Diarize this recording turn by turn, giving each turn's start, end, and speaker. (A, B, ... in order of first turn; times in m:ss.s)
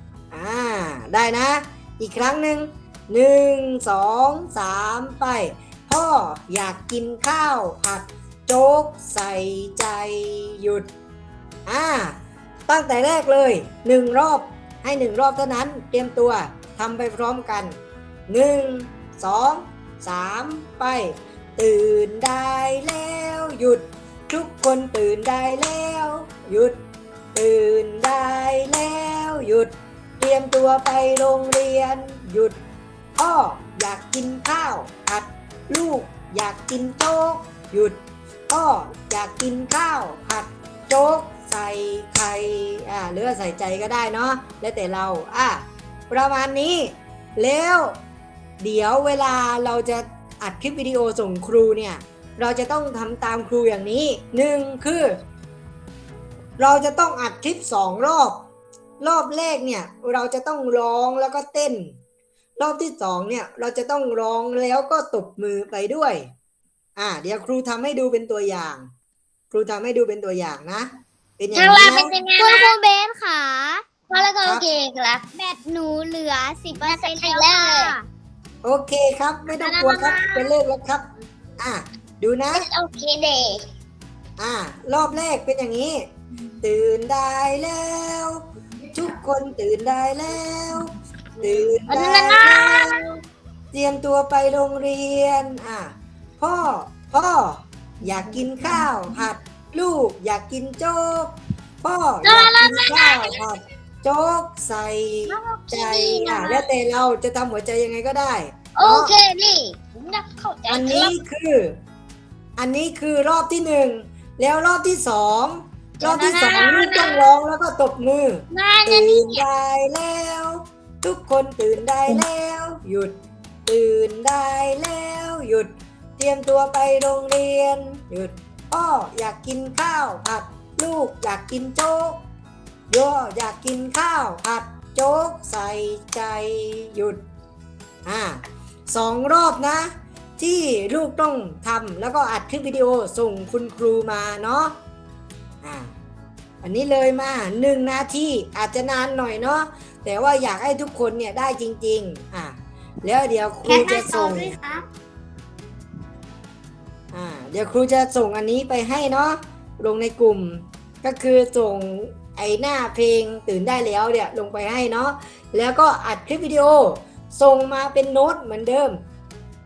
0:00.3-0:10.9 A
0:11.7-0:26.8 A
0:27.4-0:32.6 A
0:33.2-0:48.0 A
0:48.6-0:55.2 A
0:56.6-0:58.4 A
0:59.0-1:02.0 A
1:02.6-1:06.3 A
1:07.0-1:08.9 A
1:09.5-1:12.1 A
1:11.5-1:12.8 B
1:12.4-1:13.9 C
1:14.1-1:15.2 B
1:15.3-1:18.1 C
1:16.9-1:18.0 B
1:18.6-1:21.1 A
1:19.6-1:20.5 B
1:21.6-1:22.7 A
1:22.5-1:23.6 B
1:24.4-1:26.1 A
1:26.6-1:28.4 A
1:28.9-1:33.1 A
1:31.9-1:33.1 B
1:33.7-1:49.2 A
1:42.2-1:43.4 B
1:45.3-1:46.7 B
1:48.8-1:51.1 B
1:50.7-1:51.8 A
1:52.6-2:12.2 A
1:56.0-1:57.2 B
1:58.5-1:59.4 B
2:12.9-2:17.2 A
2:18.1-2:24.8 A
2:25.6-2:26.0 A
2:26.6-2:34.6 A
2:33.6-2:34.8 B
2:37.1-2:49.0 A